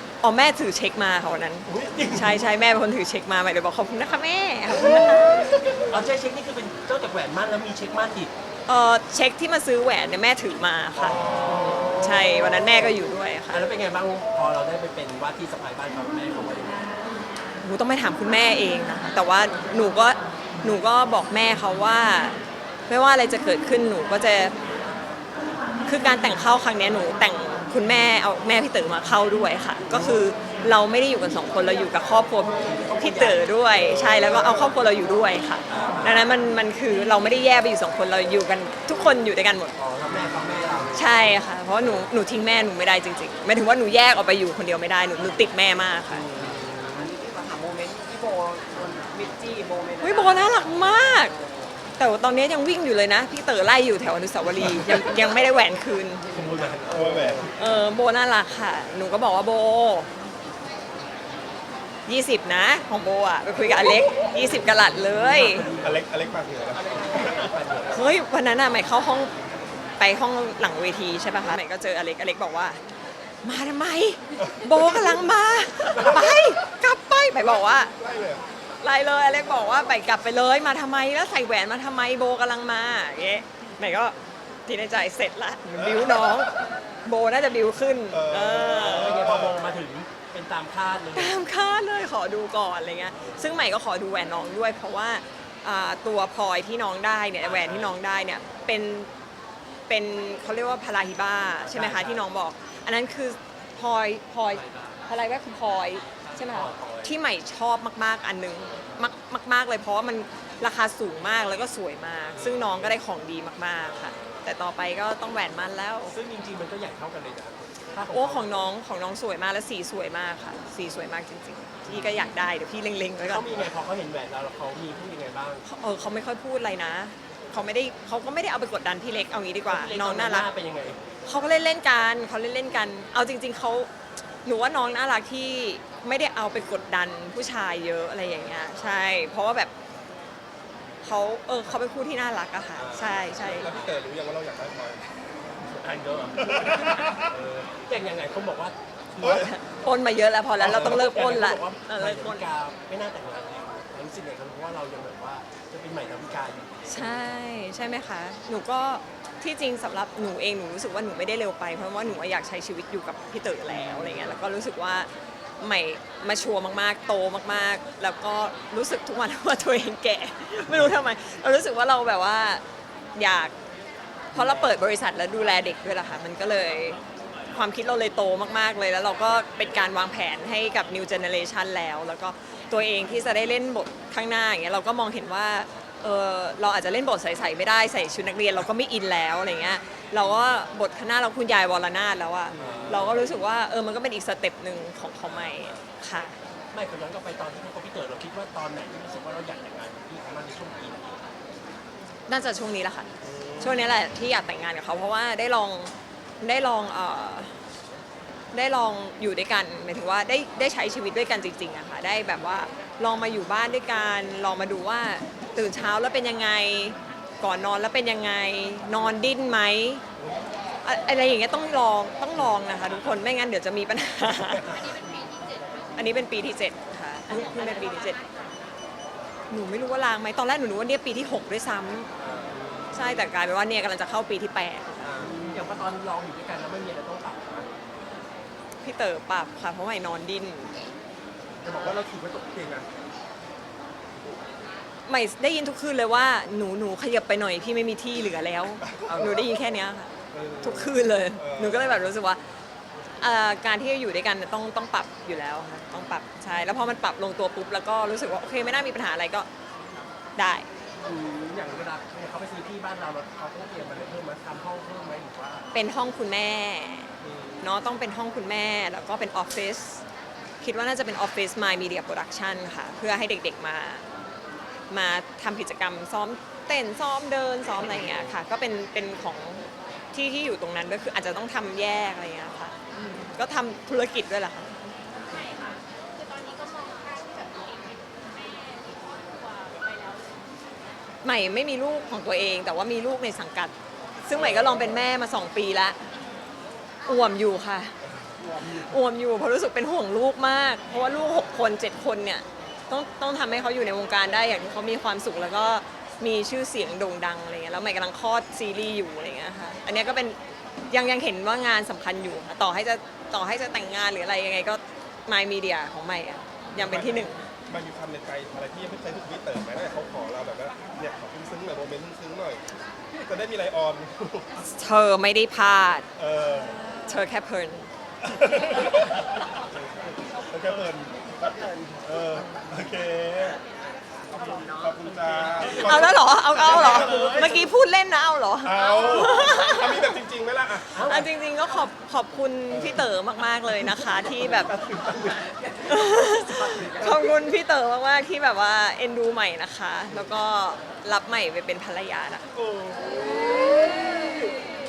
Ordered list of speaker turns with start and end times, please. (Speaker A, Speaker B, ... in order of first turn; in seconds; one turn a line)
Speaker A: 0.2-5.8
Speaker B: 1.7-2.5
Speaker B: 4.7-8.3
Speaker A: 8.7-11.3
Speaker B: 11.0-12.9
Speaker A: 12.0-13.7
Speaker B: 13.5-16.9
Speaker A: 17.6-22.4
Speaker A: 22.9-24.5
Speaker A: 25.9-39.7
Speaker B: 29.9-30.2
Speaker B: 32.5-33.6
Speaker C: 33.8-34.7
Speaker B: 35.7-36.3
Speaker B: 39.8-42.1
Speaker A: 40.9-46.2
Speaker B: 46.1-47.1
Speaker D: 46.9-50.5
Speaker A: 50.0-51.3
Speaker A: 52.0-56.3
Speaker B: 54.6-55.1
Speaker D: 56.3-57.5
Speaker B: 56.3-57.5
Speaker C: 56.9-57.5
Speaker A: 57.5-60.1
Speaker A: 62.1-65.7
Speaker B: 64.0-66.0
Speaker C: 65.8-67.5
Speaker B: 66.7-68.1
Speaker A: 67.9-69.3
Speaker A: 70.0-72.8
Speaker A: 73.4-77.9
Speaker C: 74.4-75.2
Speaker B: 75.9-76.3
Speaker C: 77.4-78.4
Speaker A: 78.8-84.2
Speaker A: 84.7-86.5
Speaker C: 85.8-86.3
Speaker A: 87.0-89.5
Speaker C: 88.1-89.7
Speaker B: 88.8-91.4
Speaker A: 91.1-99.1
Speaker B: 97.4-98.0
Speaker A: 99.9-116.2
Speaker B: 101.6-102.3
Speaker B: 104.5-105.0
Speaker B: 106.1-107.2
Speaker B: 112.3-113.0
Speaker B: 113.8-114.5
Speaker B: 116.1-118.7
Speaker A: 118.1-123.7
Speaker B: 121.9-122.3
Speaker B: 123.2-125.6
Speaker A: 125.7-130.5
Speaker B: 129.7-131.0
Speaker A: 131.3-133.9
Speaker A: 134.4-139.7
Speaker A: 141.0-143.7
Speaker B: 142.8-143.7
Speaker C: 143.4-145.1
Speaker B: 145.7-149.5
Speaker C: 146.4-147.3
Speaker C: 149.2-149.5
Speaker A: 149.2-152.5
Speaker B: 150.6-157.3
Speaker A: 156.9-165.1
Speaker B: 163.7-164.4
Speaker A: 165.6-172.6
Speaker A: 173.2-173.5
Speaker B: 174.3-174.8
Speaker A: 174.3-177.0
Speaker A: 177.5-196.4
Speaker B: 192.5-193.4
Speaker B: 195.2-195.8
Speaker B: 196.7-201.2
Speaker A: 202.3-207.5
Speaker B: 203.2-203.9
Speaker A: 208.5-220.0
Speaker A: 220.8-224.8
Speaker E: 224.7-226.0
Speaker A: 226.0-228.2
Speaker B: 227.3-227.8
Speaker E: 227.5-228.6
Speaker A: 229.5-232.1
Speaker B: 232.2-233.2
Speaker A: 232.9-235.4
Speaker B: 235.0-237.7
Speaker A: 238.8-240.8
Speaker B: 241.6-242.9
Speaker A: 245.1-252.4
Speaker C: 248.9-249.4
Speaker B: 249.1-249.3
Speaker B: 250.3-250.9
Speaker C: 251.4-252.1
Speaker A: 253.2-259.5
Speaker A: 260.4-260.7
Speaker B: 261.0-265.7
Speaker A: 265.7-270.0
Speaker B: 267.2-267.6
Speaker A: 270.6-274.0
Speaker A: 274.9-284.7
Speaker B: 278.0-278.3
Speaker E: 285.2-290.4
Speaker A: 291.2-293.7
Speaker A: 294.2-296.0
Speaker C: 294.3-295.1
Speaker A: 297.1-297.9
Speaker A: 298.7-310.4
Speaker A: 310.9-317.4
Speaker C: 316.8-322.6
Speaker C: 323.2-324.6
Speaker A: 324.8-326.1
Speaker C: 326.2-326.8
Speaker A: 327.1-327.9
Speaker C: 328.2-333.6
Speaker D: 331.4-332.0
Speaker D: 334.3-335.9
Speaker C: 334.8-337.5
Speaker A: 335.8-340.1
Speaker B: 336.0-337.7
Speaker C: 338.6-341.0
Speaker B: 340.9-341.3
Speaker A: 341.1-344.7
Speaker C: 342.7-343.1
Speaker C: 344.7-345.5
Speaker A: 345.9-352.5
Speaker D: 346.4-347.3
Speaker C: 352.5-354.1